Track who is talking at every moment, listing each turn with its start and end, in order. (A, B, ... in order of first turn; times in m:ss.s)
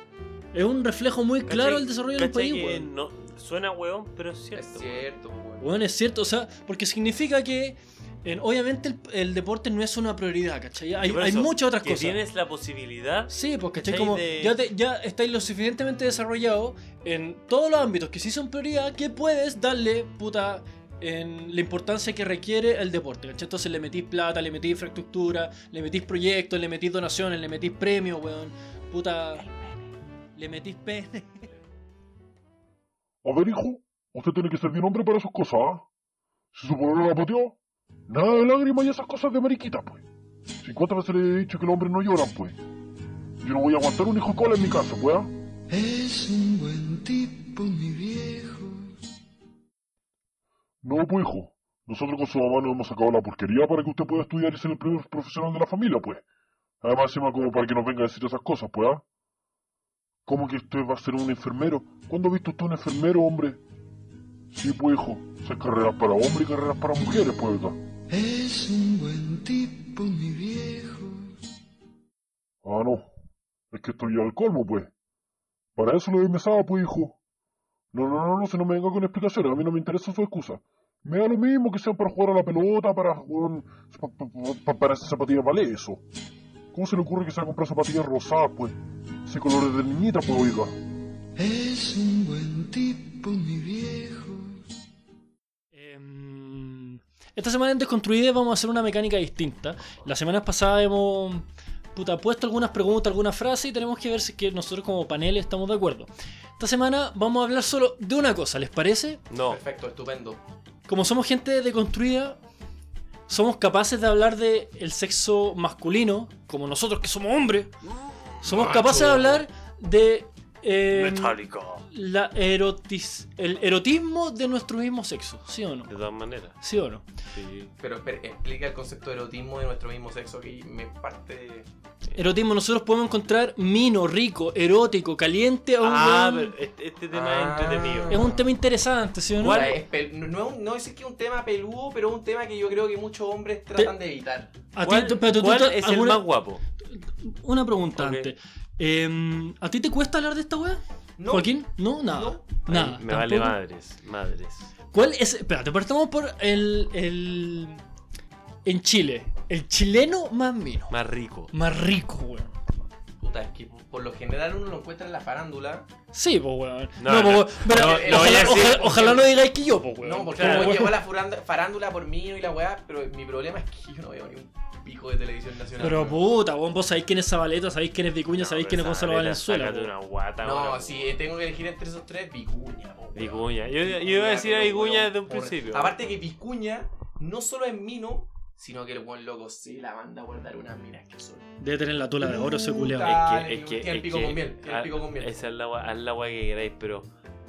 0:00.5-0:02.9 A
0:01.5-0:05.0 B
0:04.5-0:05.6 C
0:05.6-0:12.2 A
0:11.0-0:14.6 B
0:13.3-0:29.4 A
0:30.4-0:31.4 A
0:33.2-0:35.8 D
0:36.5-0:37.6 D
0:38.1-0:40.0 D
0:40.6-0:42.6 D
0:43.4-0:45.3 D
0:45.7-0:48.9 E
0:50.8-0:56.2 D
0:56.8-0:59.0 D
1:00.2-1:03.6 D
1:04.5-1:07.8 D
1:08.1-1:11.3 E
1:12.6-1:13.1 D
1:13.7-1:14.9 D
1:15.8-1:17.2 D
1:17.9-1:26.0 D
1:26.7-1:30.7 D
1:31.4-1:34.6 E
1:35.7-1:49.2 A
1:49.3-1:49.6 B
1:49.4-1:50.4 C
1:50.9-1:52.4 A
1:53.3-1:57.7 A
1:57.8-1:59.1 B
1:58.4-2:01.4 A
1:58.5-1:59.4 C
2:00.9-2:01.9 B
2:01.9-2:05.9 A
2:05.9-2:06.6 B
2:06.6-2:07.1 A
2:07.3-2:07.7 B
2:07.8-2:11.7 C
2:12.2-2:16.5 A
2:15.8-2:18.3 B
2:17.1-2:18.5 C
2:18.1-2:19.7 A
2:19.4-2:19.8 B
2:19.4-2:24.5 C
2:24.7-2:26.2 A
2:24.8-2:26.6 B
2:26.9-2:33.6 A
2:28.0-2:28.3 B
2:31.2-2:32.4 C
2:32.6-2:34.7 B
2:34.9-2:37.8 A
2:38.6-2:40.9 A
2:40.9-2:41.5 B
2:41.5-2:42.5 A
2:43.2-2:45.9 C
2:46.1-2:50.9 A
2:47.0-2:49.2 B
2:47.7-2:49.3 C
2:50.0-2:56.2 C
2:50.4-2:50.9 B
2:55.8-2:59.9 A
2:58.3-3:01.2 B
3:00.4-3:11.5 C
3:03.1-3:06.1 B
3:11.6-3:13.2 A
3:12.2-3:15.3 C
3:13.0-3:17.1 B